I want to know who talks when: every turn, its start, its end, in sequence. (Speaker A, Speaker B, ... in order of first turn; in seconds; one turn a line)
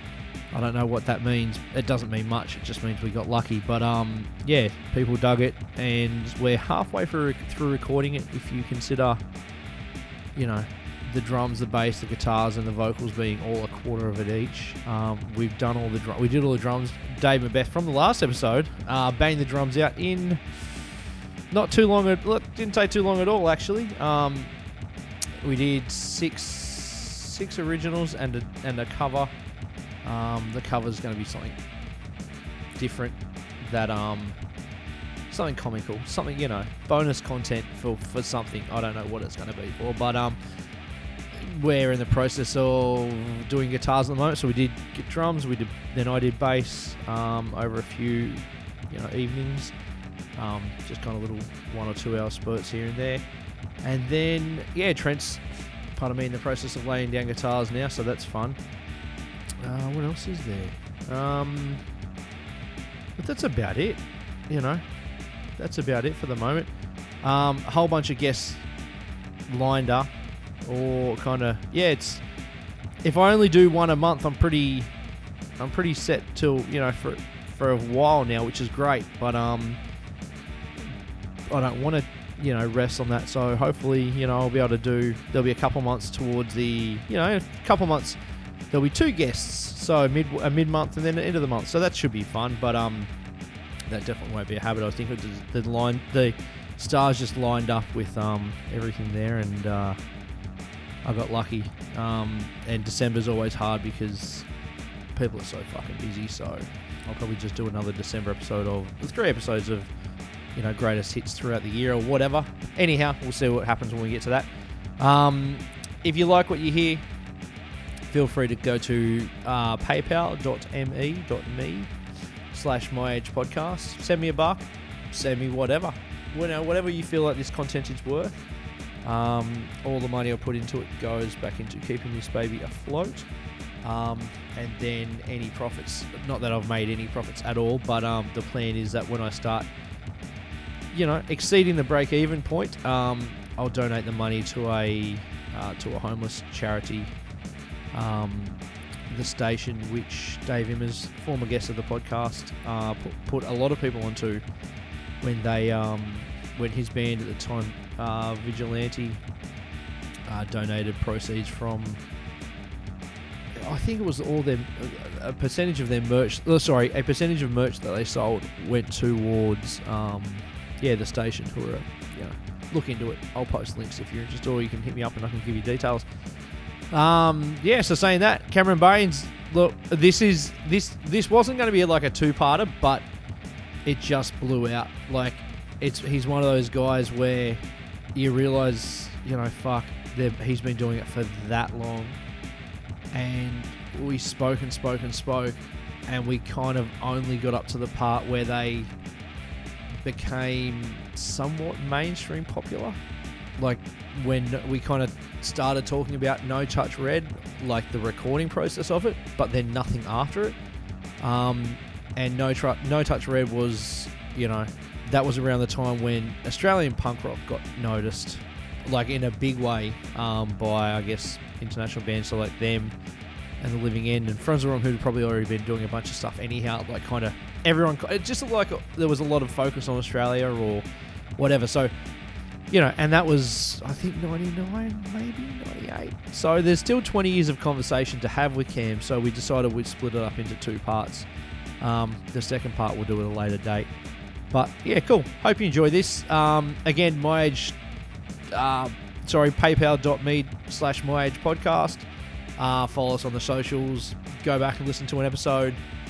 Speaker A: 0.5-9.2
Speaker A: 10.3-20.9
Speaker A: 21.5-24.5
Speaker A: 25.4-29.3
Speaker A: 30.0-31.6
Speaker A: 32.8-34.4
Speaker A: 35.3-40.4
Speaker A: 41.3-49.7
Speaker A: 50.4-53.2
Speaker A: 53.8-58.6
Speaker A: 59.6-61.8
Speaker A: 63.2-64.8
Speaker A: 65.6-66.7
Speaker A: 67.2-68.6
Speaker A: 69.5-72.2
Speaker A: 73.0-74.9
Speaker A: 75.6-79.8
Speaker A: 81.5-88.2
Speaker A: 88.7-93.1
Speaker A: 93.9-100.0
Speaker A: 101.0-104.5
Speaker A: 105.2-109.9
Speaker A: 110.5-117.0
Speaker A: 118.1-121.9
Speaker A: 122.5-128.4
Speaker A: 129.0-133.3
Speaker A: 133.8-139.7
Speaker A: 140.9-147.1
Speaker A: 147.9-154.4
Speaker A: 155.2-159.2
Speaker A: 160.3-162.0
Speaker A: 163.6-176.1
Speaker A: 176.9-183.1
Speaker A: 183.9-187.6
Speaker A: 188.2-192.2
Speaker A: 193.1-198.9
Speaker A: 199.9-203.0
Speaker A: 203.6-210.6
Speaker A: 211.2-222.9
Speaker A: 223.6-230.9
Speaker A: 231.4-231.9
Speaker A: 232.7-241.3
Speaker A: 241.8-243.9
Speaker A: 244.5-247.8
Speaker A: 248.5-255.8